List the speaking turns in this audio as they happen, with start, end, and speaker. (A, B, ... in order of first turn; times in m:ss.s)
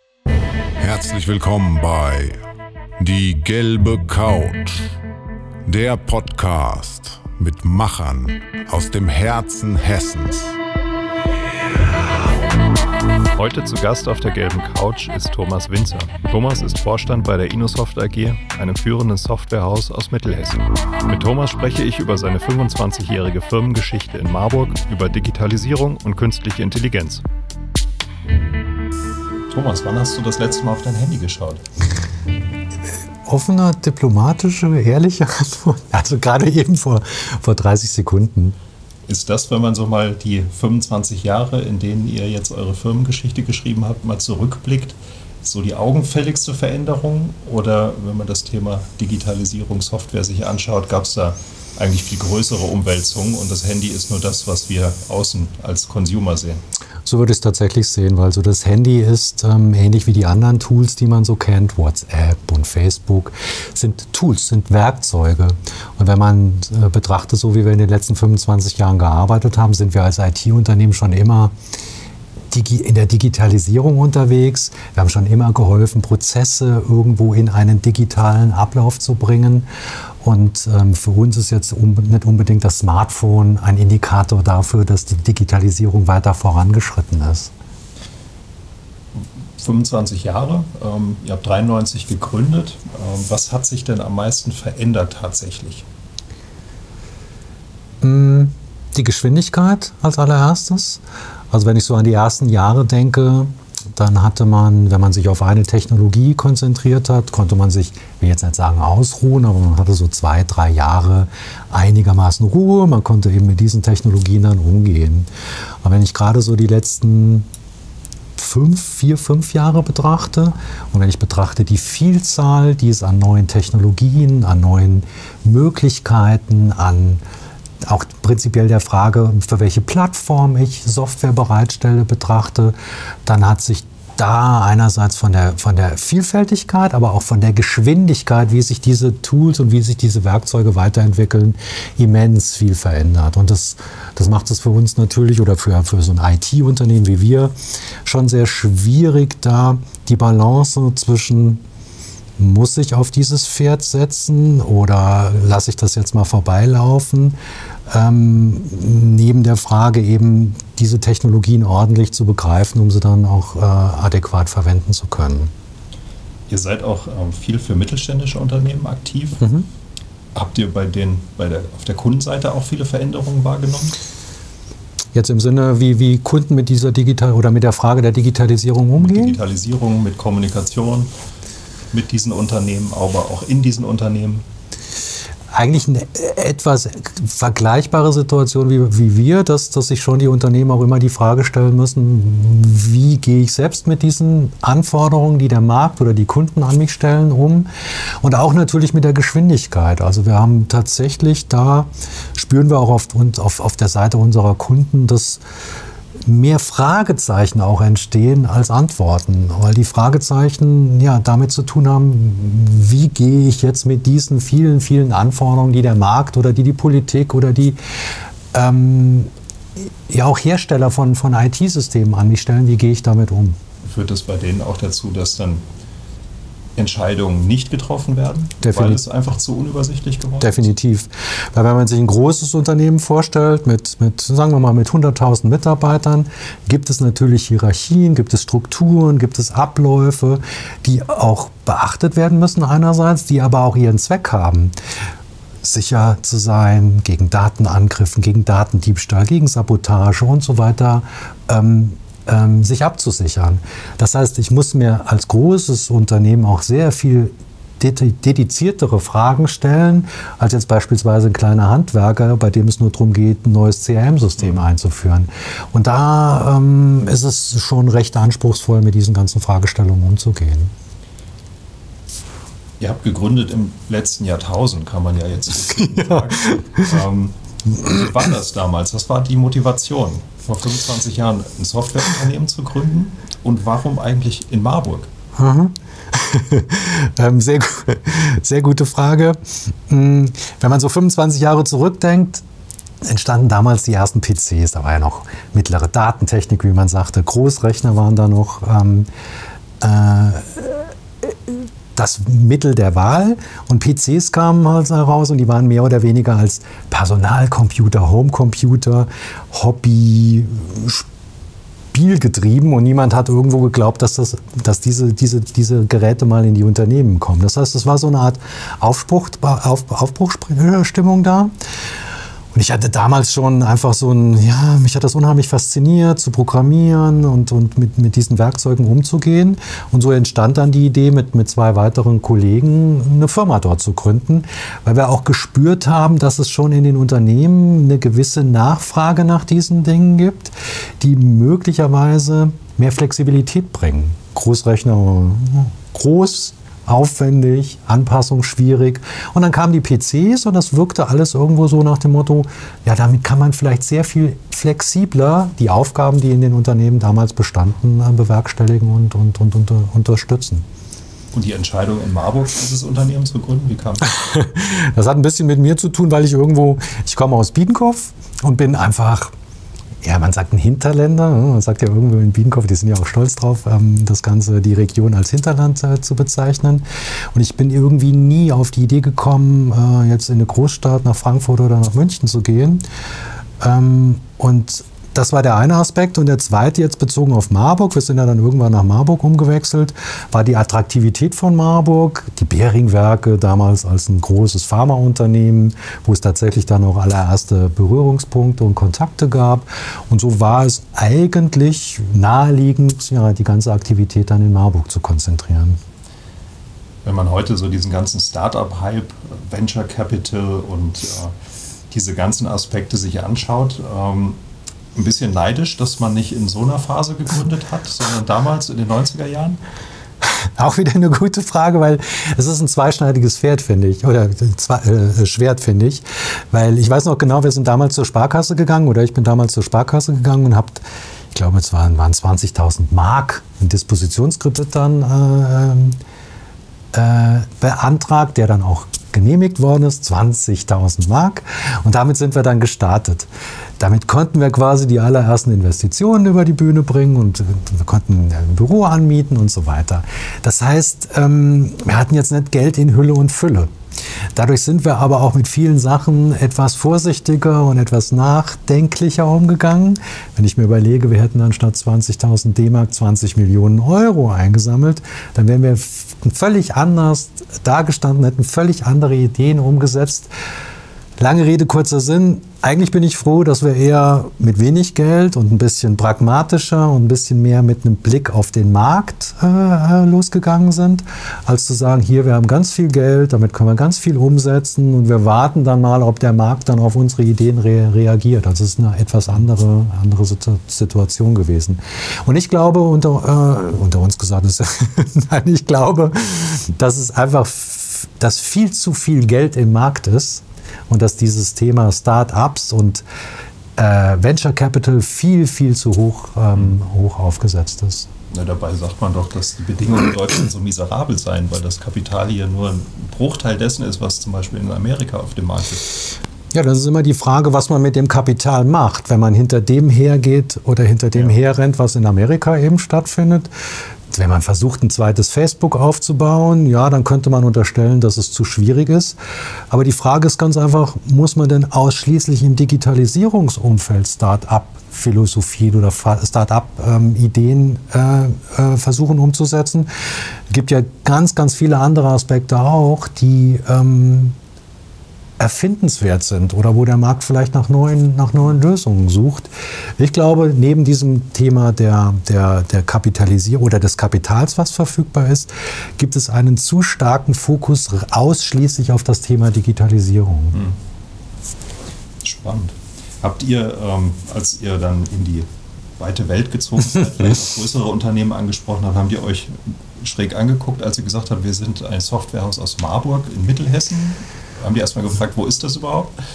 0:00.8-0:02.4 A
0:03.0-0:04.9 A
0:05.6-0:10.5 A
0:13.4-0:27.2 B
0:29.5-0:31.6 B
0:33.2-0:38.6 C
0:39.1-0:56.6 B
0:57.0-1:11.5 C
1:12.5-1:19.7 C
1:20.2-1:27.5 C
1:29.1-1:35.8 B
1:38.0-1:55.3 C
1:55.8-1:57.5 C
1:58.4-2:07.2 C
2:07.8-2:31.6 C
2:32.4-2:37.4 C
2:37.9-2:45.5 C
2:46.5-2:49.4 B
2:49.4-2:49.7 C
2:50.3-2:54.0 B
2:55.1-2:59.4 C
2:59.0-3:01.1 B
3:01.9-3:04.4 B
3:05.5-3:17.7 C
3:18.2-3:25.4 C
3:26.2-3:37.8 C
3:38.5-3:43.6 C
3:43.8-3:45.6 B
3:46.8-3:50.7 B
3:48.6-3:49.0 C
3:50.4-4:04.7 C
4:05.6-4:30.7 C
4:32.8-4:45.1 B
4:35.8-4:37.0 C
4:45.4-4:52.4 C
4:53.0-4:59.1 C
4:59.8-5:11.1 C
5:11.9-5:21.5 C
5:22.5-6:00.6 C
6:01.3-6:04.2 B
6:04.1-6:09.3 C
6:10.0-6:22.8 C
6:23.6-6:45.8 C
6:47.0-6:51.3 B
6:51.9-6:54.4 B
6:54.9-6:59.6 B
7:00.2-7:16.0 C
7:16.9-7:33.7 C
7:34.3-7:50.3 C
7:51.2-8:23.0 C
8:23.8-8:28.1 C
8:28.3-8:36.0 B
8:36.5-8:43.5 C
8:44.1-8:49.2 C
8:49.7-9:04.4 C
9:05.4-9:20.6 C
9:22.2-9:36.1 B